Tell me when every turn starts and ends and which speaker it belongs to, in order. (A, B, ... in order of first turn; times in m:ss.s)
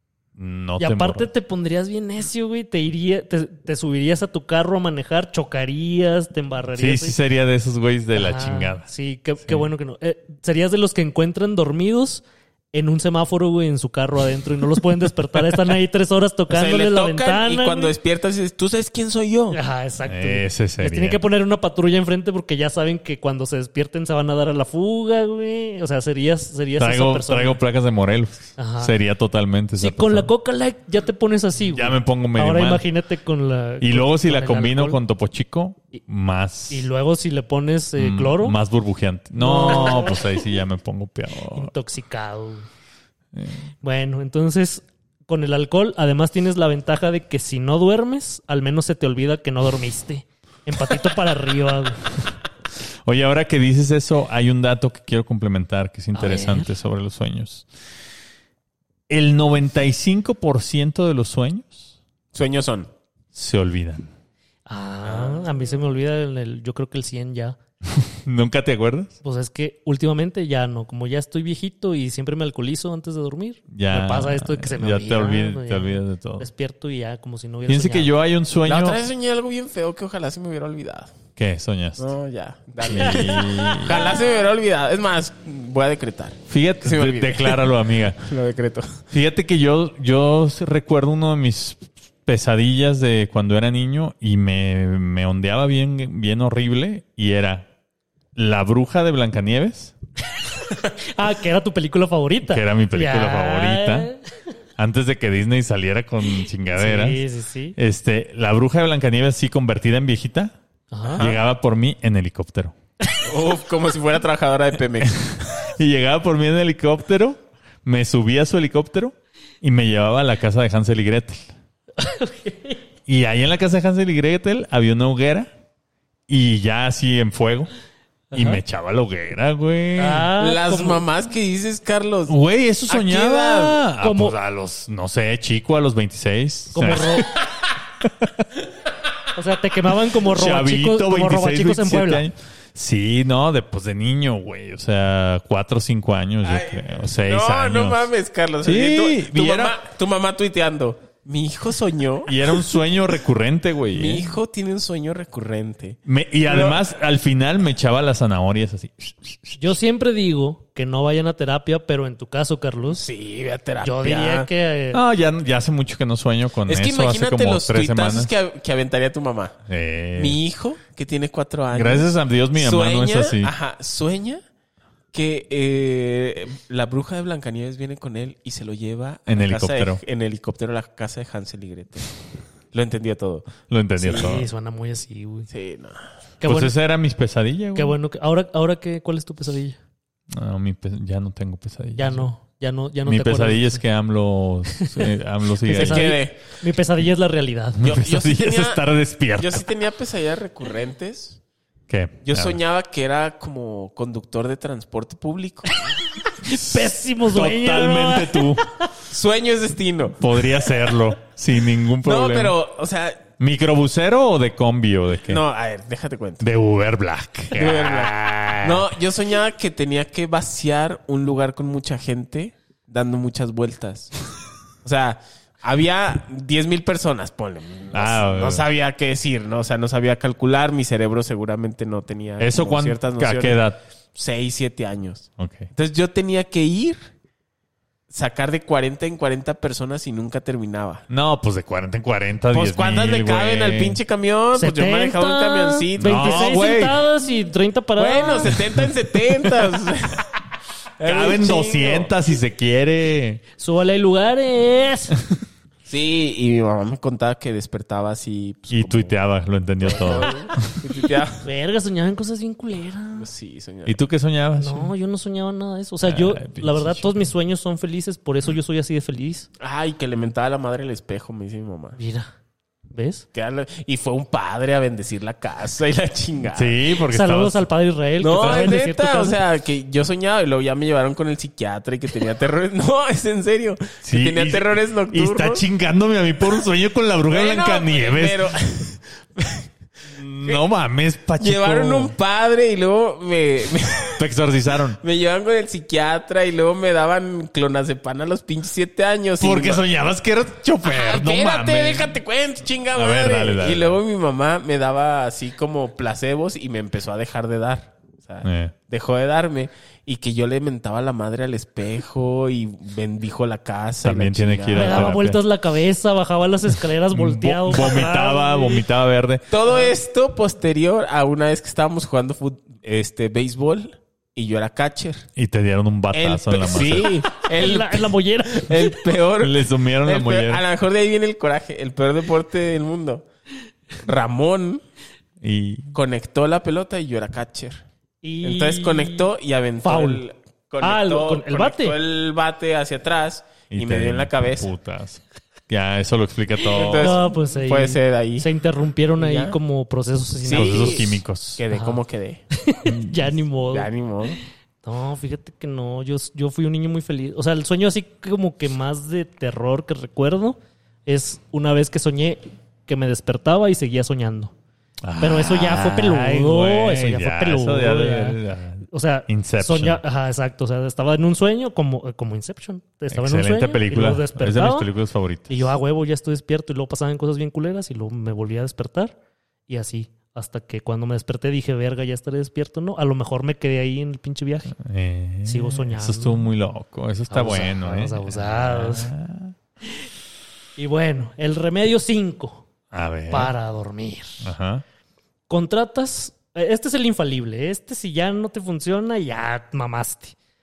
0:00.4-0:01.3 A
0:00.8-0:07.2 B
0:06.8-0:08.8 A
0:08.1-0:17.9 B
0:16.5-0:19.6 C
0:19.5-0:27.6 B
0:20.1-0:21.2 A
0:26.8-0:30.3 A
0:28.6-0:28.9 B
0:29.8-0:35.0 B
0:31.7-0:32.8 A
0:33.8-0:36.8 A
0:36.7-0:38.6 B
0:38.0-0:41.7 A
0:39.4-0:40.4 B
0:41.5-0:42.6 B
0:43.3-0:43.7 A
0:43.8-0:52.0 B
0:53.0-0:57.7 A
0:56.1-0:56.7 B
0:59.1-1:01.9 A
1:02.3-1:02.9 C
1:03.3-1:04.1 A
1:04.7-1:07.6 B
1:05.0-1:05.5 C
1:07.9-1:09.1 A
1:09.2-1:18.1 B
1:13.7-1:16.5 A
1:17.7-1:19.0 A
1:18.6-1:21.1 C
1:21.4-1:22.1 A
1:22.0-1:29.0 C
1:22.8-1:24.0 A
1:22.9-1:24.1 B
1:26.5-1:28.2 A
1:29.1-1:37.7 A
1:38.3-1:39.9 A
1:41.0-1:44.2 B
1:42.4-1:44.1 A
1:44.8-1:47.2 A
1:46.4-1:47.8 B
1:47.8-1:50.5 A
1:50.9-1:51.2 B
1:51.2-1:52.7 A
1:53.2-1:55.5 C
1:55.0-2:01.5 A
2:02.0-2:02.8 B
2:03.0-2:05.5 A
2:06.3-2:07.7 A
2:08.3-2:08.6 B
2:08.3-2:10.3 A
2:10.0-2:11.0 B
2:10.4-2:12.3 C
2:12.3-2:17.2 A
2:12.9-2:13.8 C
2:14.0-2:14.4 B
2:16.7-2:17.3 B
2:18.0-2:18.3 A
2:19.3-2:22.2 B
2:20.2-2:28.1 A
2:26.4-2:32.3 C
2:28.6-2:29.8 A
2:32.3-2:34.3 A
2:33.9-2:36.8 C
2:36.0-2:39.6 A
2:39.6-2:43.0 B
2:42.9-2:44.5 C
2:43.8-2:45.0 B
2:44.9-2:48.3 A
2:46.6-2:49.6 C
2:49.7-2:50.4 A
2:50.1-2:54.4 C
2:51.7-2:53.5 A
2:55.1-3:02.1 C
2:59.3-3:00.0 A
3:02.7-3:04.4 C
3:03.7-3:04.4 A
3:04.0-3:05.5 B
3:05.5-3:06.1 C
3:06.4-3:06.7 B
3:06.4-3:07.9 A
3:07.7-3:09.8 B
3:10.3-3:12.3 A
3:12.0-3:13.8 B
3:13.0-3:16.1 A
3:14.8-3:15.1 B
3:15.7-3:17.8 B
3:15.7-3:16.4 C
3:17.8-3:19.6 A
3:17.8-3:18.8 C
3:19.4-3:21.4 C
3:21.9-3:22.6 A
3:22.2-3:25.8 C
3:26.4-3:28.7 B
3:26.4-3:28.6 A
3:29.1-3:30.2 C
3:30.2-3:32.6 A
3:32.0-3:33.2 C
3:33.4-3:35.4 A
3:35.3-3:36.4 C
3:36.4-3:38.9 A
3:37.5-3:44.1 C
3:44.8-3:53.6 C
3:47.9-3:48.6 A
3:52.4-3:53.8 A
3:54.1-3:57.0 C
3:55.4-3:55.7 A
3:58.1-4:01.0 C
4:01.1-4:04.0 A
4:02.5-4:06.5 C
4:04.5-4:08.5 B
4:06.0-4:07.0 A
4:08.0-4:10.2 C
4:11.0-4:12.1 C
4:11.0-4:13.4 A
4:13.6-4:15.2 B
4:15.8-4:19.1 C
4:18.7-4:20.7 A
4:19.8-4:21.4 C
4:21.4-4:23.3 B
4:23.1-4:24.0 C
4:23.8-4:24.9 A
4:24.6-4:29.5 B
4:26.0-4:27.1 A
4:29.6-4:32.0 C
4:32.0-4:32.3 B
4:32.9-4:33.2 B
4:33.3-4:36.8 C
4:36.5-4:37.6 A
4:37.1-4:39.4 B
4:38.2-4:45.6 C
4:44.0-4:48.4 A
4:47.3-4:49.7 C
4:50.1-4:52.1 A
4:51.4-4:54.2 C
4:54.2-4:55.0 A
4:55.0-4:59.8 C
4:59.4-5:02.1 A
5:00.8-5:15.2 C
5:02.9-5:04.0 A
5:08.4-5:08.7 A
5:14.0-5:15.4 A
5:14.7-5:18.8 B
5:17.1-5:19.4 A
5:19.5-5:25.3 C
5:25.4-5:27.2 A
5:26.1-5:33.2 C
5:27.4-5:29.0 B
5:29.4-5:30.6 A
5:34.0-5:34.8 C
5:35.4-5:35.9 A
5:35.9-5:37.8 C
5:38.2-5:39.3 B
5:38.4-5:44.7 C
5:39.8-5:40.2 B
5:40.8-5:42.0 B
5:43.7-5:47.2 A
5:46.7-5:48.5 C
5:46.8-5:51.1 B
5:49.2-5:49.6 C
5:50.4-5:52.4 C
5:50.5-5:51.6 A
5:51.7-5:52.0 B
5:52.5-5:53.9 B
5:52.8-5:53.2 A
5:53.7-5:54.4 C
5:54.8-6:04.5 B
6:05.0-6:10.0 A
6:05.2-6:14.9 B
6:13.1-6:15.7 A
6:15.5-6:19.2 B
6:19.7-6:24.7 B
6:24.8-6:29.5 A
6:25.4-6:26.5 B
6:27.3-6:29.1 B
6:30.8-6:32.6 B
6:32.9-6:33.5 A
6:33.3-6:34.4 B
6:34.4-6:34.8 A
6:35.5-6:40.3 B